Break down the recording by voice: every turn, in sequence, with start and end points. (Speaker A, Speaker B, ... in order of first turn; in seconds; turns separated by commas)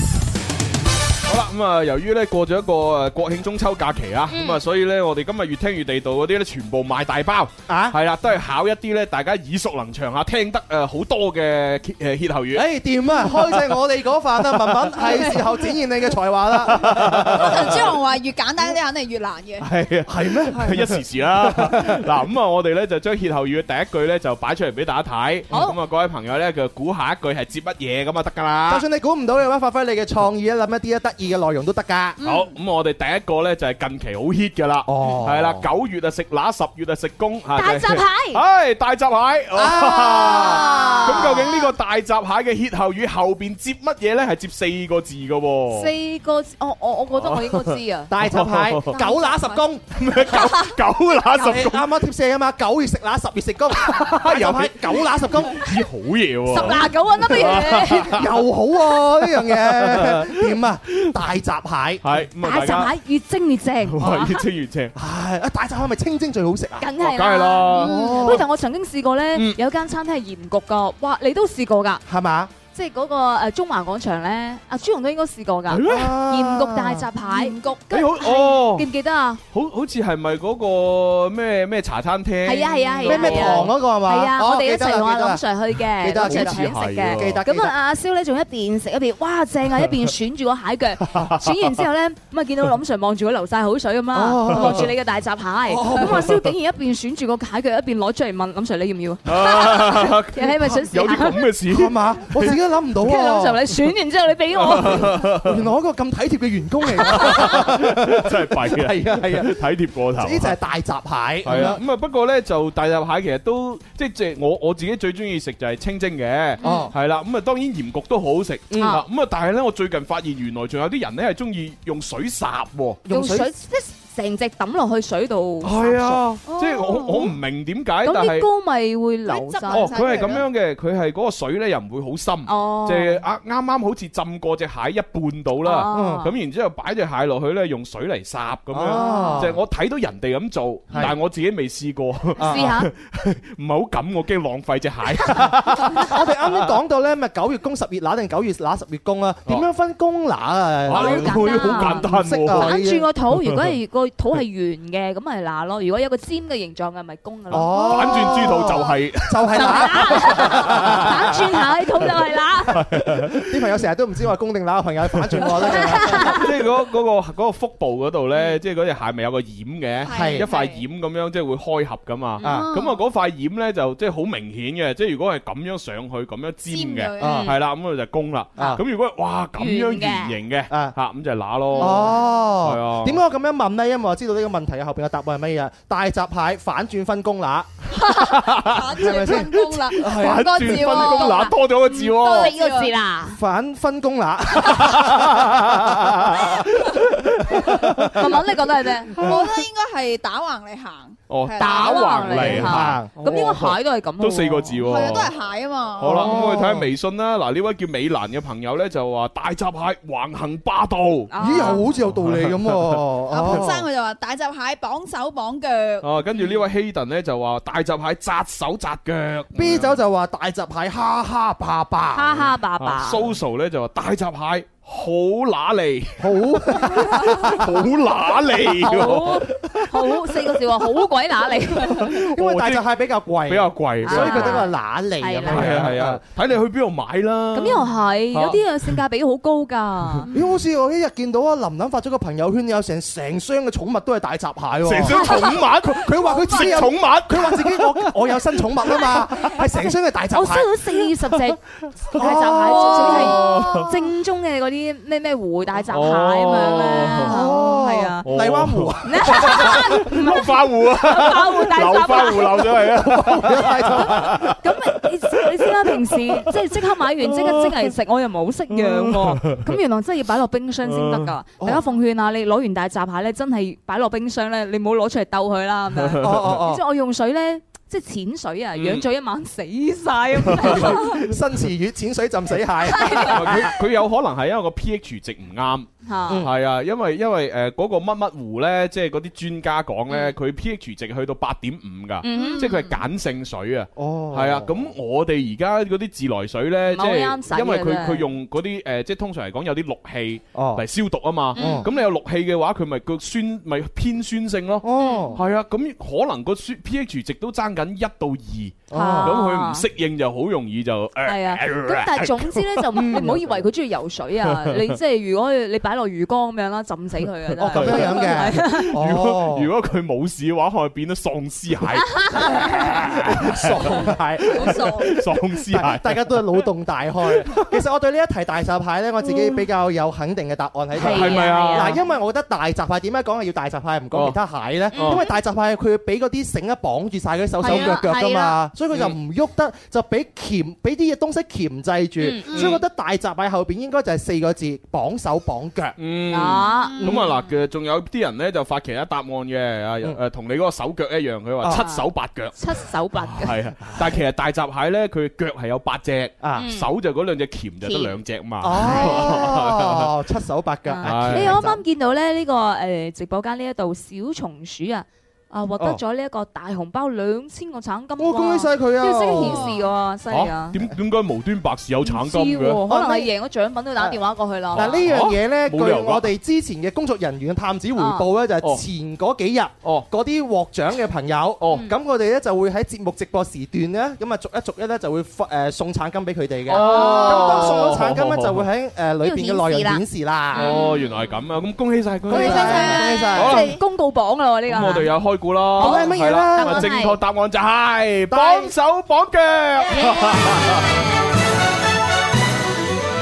Speaker A: 1.2-12.6, Speaker B: 4.3-4.6, Speaker C: 7.7-8.0, Speaker C: 12.5-17.9, Speaker A: 16.6-17.7, Speaker D: 17.4-19.7, Speaker A: 19.6-28.8, Speaker C: 20.1-22.0, Speaker C: 28.7-32.2, Speaker D: 32.2-32.5, Speaker A: 32.2-45.9, Speaker C: 34.9-35.6, Speaker B: 37.5-38.4, Speaker C: 39.5-41.5, Speaker B: 40.2-41.6, Speaker B: 45.7-48.1, Speaker A: 47.1-49.0, Speaker C: 48.1-49.9, Speaker B: 49.0-49.6, Speaker A: 49.9-51.9, Speaker C: 51.3-55.6, Speaker A: 53.8-58.3, Speaker B: 56.5-58.2, Speaker C: 56.6-56.8, Speaker C: 57.4-62.1, Speaker A: 59.3-61.1, Speaker A: 62.0-62.9, Speaker B: 62.4-64.4, Speaker A: 63.9-64.9, Speaker C: 64.9-66.9, Speaker B: 66.8-72.0, Speaker A: 67.0-68.4, Speaker C: 67.7-68.4, Speaker C: 72.0-72.5, Speaker B: 72.7-79.4, Speaker A: 75.7-76.1, Speaker C: 75.8-77.1, Speaker A: 77.9-78.9, Speaker A: 79.5-83.7, Speaker B: 82.4-101.4, Speaker C: 83.0-85.4, Speaker C: 86.0-87.7, Speaker A: 86.2-87.4, Speaker A: 91.1-91.7, Speaker C: 94.1-94.9, Speaker C: 95.7-96.4, Speaker A: 99.2-102.6, Speaker C: 101.7-103.6, Speaker B: 103.0-105.2, Speaker A: 104.5-105.6, Speaker C: 105.2-109.6, Speaker A: 107.0-110.5, Speaker C: 110.2-111.8, Speaker A: 111.4-123.0, Speaker C: 116.6-116.9, Speaker B: 116.6-116.9, Speaker C: 118.7-119.0, Speaker B: 118.8-119.0, Speaker C: 123.0-123.5, Speaker B: 123.1-127.3, Speaker A: 125.6-128.5, Speaker B: 128.0-130.0, Speaker D: 129.3-130.4, Speaker A: 129.7-146.7, Speaker C: 129.9-130.4, Speaker B: 132.5-133.2, Speaker B: 135.6-136.3, Speaker C: 135.9-136.3, Speaker C: 138.7-139.6, Speaker B: 138.9-139.4, Speaker C: 140.9-141.2, Speaker B: 142.4-142.9, Speaker C: 142.4-142.7, Speaker C: 145.9-153.1, Speaker A: 150.9-152.7, Speaker B: 150.9-158.2, Speaker A: 153.3-153.6, Speaker C: 157.5-161.5, Speaker A: 157.6-161.5, Speaker B: 159.5-162.8, Speaker A: 162.7-163.7, Speaker C: 163.3-166.4, Speaker A: 165.1-183.2, Speaker B: 165.7-166.4, Speaker D: 170.0-170.8, Speaker C: 170.1-170.5, Speaker C: 172.4-172.7, Speaker D: 172.4-173.0, Speaker D: 176.7-177.5, Speaker C: 177.2-177.5, Speaker B: 179.6-180.3, Speaker C: 180.7-180.9, Speaker C: 181.8-187.7, Speaker A: 188.1-192.5, Speaker D: 188.6-192.9, Speaker C: 188.9-190.9, Speaker B: 190.8-193.4, Speaker C: 193.3-196.9, Speaker A: 194.6-198.1, Speaker C: 197.5-198.2, Speaker B: 198.1-199.2, Speaker D: 199.2-202.2, Speaker A: 201.3-205.3, Speaker B: 201.6-204.8, Speaker C: 202.3-203.6, Speaker D: 204.8-206.3, Speaker A: 206.0-213.6, Speaker C: 206.0-206.9, Speaker B: 211.3-211.8, Speaker C: 211.4-213.8, Speaker D: 213.3-216.1, Speaker A: 216.0-219.9, Speaker C: 219.5-222.4, Speaker B: 222.1-223.3, Speaker A: 222.8-229.8, Speaker C: 226.2-227.8, Speaker B: 228.8-232.1, Speaker C: 231.8-236.2, Speaker A: 231.9-232.8, Speaker A: 233.5-234.6, Speaker B: 234.0-235.8, Speaker A: 235.5-238.9, Speaker B: 237.5-240.3, Speaker C: 240.3-250.7, Speaker A: 244.8-249.2, Speaker B: 245.1-245.6, Speaker B: 246.2-246.7, Speaker B: 249.4-251.6, Speaker B: 252.1-258.3, Speaker C: 252.1-253.8, Speaker A: 252.7-253.9, Speaker A: 255.9-257.4, Speaker C: 257.2-260.1, Speaker A: 258.2-264.6, Speaker B: 259.0-262.9, Speaker C: 262.9-264.6, Speaker B: 263.9-281.2, Speaker A: 265.5-266.4, Speaker A: 267.3-267.7, Speaker A: 268.7-269.7, Speaker A: 270.9-271.3, Speaker A: 275.9-276.6, Speaker C: 276.2-276.8, Speaker A: 278.7-279.0, Speaker A: 280.5-281.1, Speaker C: 280.5-283.7, Speaker B: 282.9-283.4, Speaker A: 283.2-285.9, Speaker B: 286.1-286.4, Speaker A: 286.4-313.1, Speaker B: 292.2-292.7, Speaker D: 292.4-292.9, Speaker C: 293.9-294.9, Speaker B: 296.9-298.3, Speaker C: 300.5-300.8, Speaker B: 301.5-301.9, Speaker C: 301.6-301.9, Speaker C: 304.8-305.4, Speaker B: 305.0-305.4, Speaker C: 308.9-309.4, Speaker B: 308.9-309.8, Speaker B: 311.2-318.9, Speaker C: 312.9-313.5, Speaker A: 314.6-314.9, Speaker C: 317.6-319.7, Speaker A: 317.6-326.6, Speaker B: 322.1-322.9, Speaker C: 322.5-346.0, Speaker A: 331.0-332.0, Speaker B: 331.0-332.0, Speaker B: 334.9-335.3, Speaker A: 334.9-335.2, Speaker B: 337.6-338.6, Speaker B: 342.2-342.5, Speaker A: 342.5-342.8, Speaker A: 346.0-352.6, Speaker B: 346.3-347.1, Speaker D: 346.8-347.1, Speaker B: 351.7-353.5, Speaker A: 353.2-360.1, Speaker C: 356.4-356.7, Speaker B: 356.6-356.9, Speaker B: 357.8-358.1, Speaker C: 358.6-361.8, Speaker B: 358.8-359.3, Speaker B: 360.9-370.8, Speaker A: 361.0-361.6, Speaker C: 368.2-369.7, Speaker D: 369.4-369.7, Speaker A: 370.3-372.8, Speaker B: 372.0-375.0, Speaker C: 372.9-373.3, Speaker A: 374.7-376.3, Speaker C: 374.7-390.8, Speaker B: 377.9-378.3, Speaker B: 386.7-387.9, Speaker A: 386.7-388.7, Speaker B: 389.2-390.0, Speaker B: 390.5-391.1, Speaker A: 390.5-393.7, Speaker C: 392.3-393.7, Speaker B: 392.3-395.1, Speaker A: 394.7-400.9, Speaker C: 395.8-396.9, Speaker B: 395.8-397.2, Speaker C: 398.3-398.7